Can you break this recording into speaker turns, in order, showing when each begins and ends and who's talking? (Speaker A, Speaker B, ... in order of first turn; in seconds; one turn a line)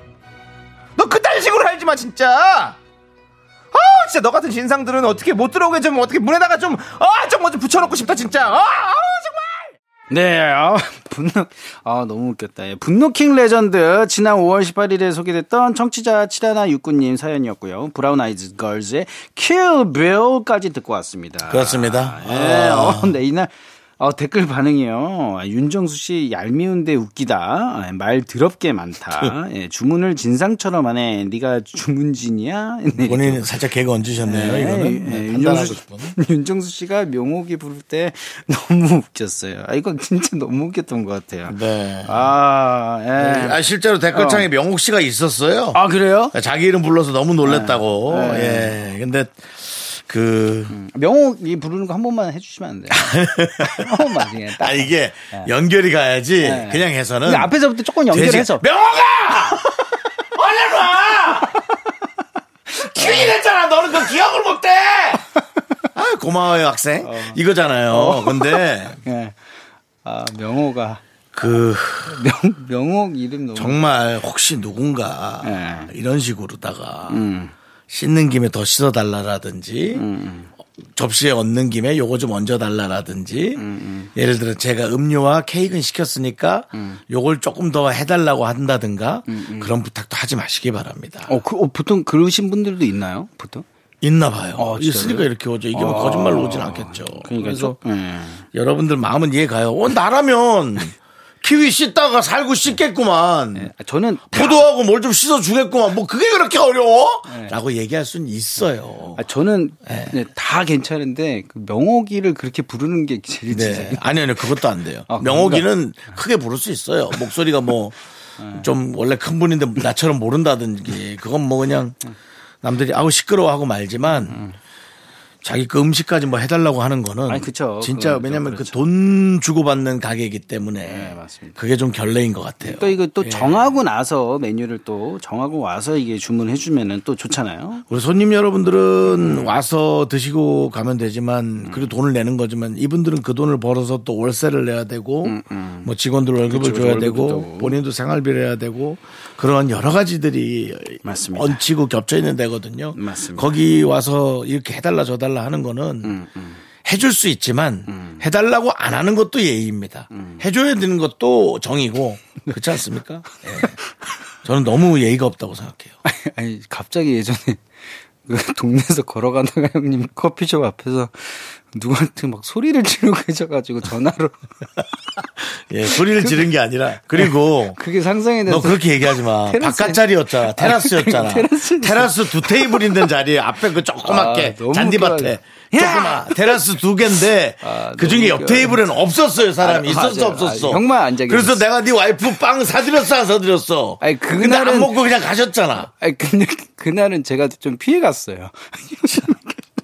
Speaker A: 1.0-2.8
Speaker A: 3.7-9.7
Speaker B: 10.1-33.5
Speaker C: 21.5-23.1
Speaker C: 33.0-36.1
Speaker B: 34.2-43.6
Speaker C: 41.5-42.3
Speaker C: 43.2-50.7
Speaker B: 44.1-44.5
Speaker B: 45.7-46.3
Speaker B: 47.4-48.8
Speaker B: 50.7-55.5
Speaker C: 52.9-57.5
Speaker B: 56.4-58.6
Speaker C: 58.1-59.6
Speaker C: 60.3-61.6
Speaker C: 62.8-65.2
Speaker B: 62.8-63.3
Speaker C: 65.9-69.0
Speaker B: 67.0-69.4
Speaker B: 70.0-71.0
Speaker C: 71.3-72.2
Speaker B: 72.0-73.8
Speaker C: 73.5-77.2
Speaker B: 75.4-75.9
Speaker B: 77.1-77.5
Speaker C: 77.9-80.0
Speaker B: 79.9-80.5
Speaker C: 80.9-83.6
Speaker B: 83.6-84.1
Speaker C: 84.1-91.3
Speaker B: 86.7-87.0
Speaker B: 89.3-89.7
Speaker B: 91.3-93.6
Speaker C: 94.0-97.8
Speaker B: 94.6-98.4
Speaker C: 98.5-103.7
Speaker B: 103.5-104.6
Speaker C: 104.3-109.2
Speaker B: 107.3-107.5
Speaker B: 109.2-114.1
Speaker C: 109.8-110.1
Speaker C: 113.5-117.9
Speaker B: 115.1-115.7
Speaker B: 118.4-118.7
Speaker C: 118.5-122.0
Speaker C: 122.6-124.4
Speaker B: 124.1-124.5
Speaker C: 125.4-133.6
Speaker B: 127.3-128.8
Speaker B: 130.8-131.6
Speaker B: 132.6-137.8
Speaker C: 137.9-156.2
Speaker B: 139.1-139.5
Speaker B: 141.6-141.9
Speaker B: 145.2-145.9
Speaker B: 146.4-147.7
Speaker B: 151.0-151.6
Speaker B: 152.9-153.5
Speaker B: 156.0-156.6
Speaker C: 156.8-163.7
Speaker B: 157.9-158.2
Speaker B: 160.1-160.4
Speaker C: 164.4-165.9
Speaker B: 166.0-167.6
Speaker B: 168.2-174.4
Speaker C: 175.4-177.8
Speaker B: 175.9-176.5
Speaker B: 177.2-183.1
Speaker C: 178.4-195.9
Speaker B: 184.0-186.6
Speaker B: 187.6-188.8
Speaker B: 189.6-191.7
Speaker B: 194.0-195.0
Speaker B: 195.8-199.6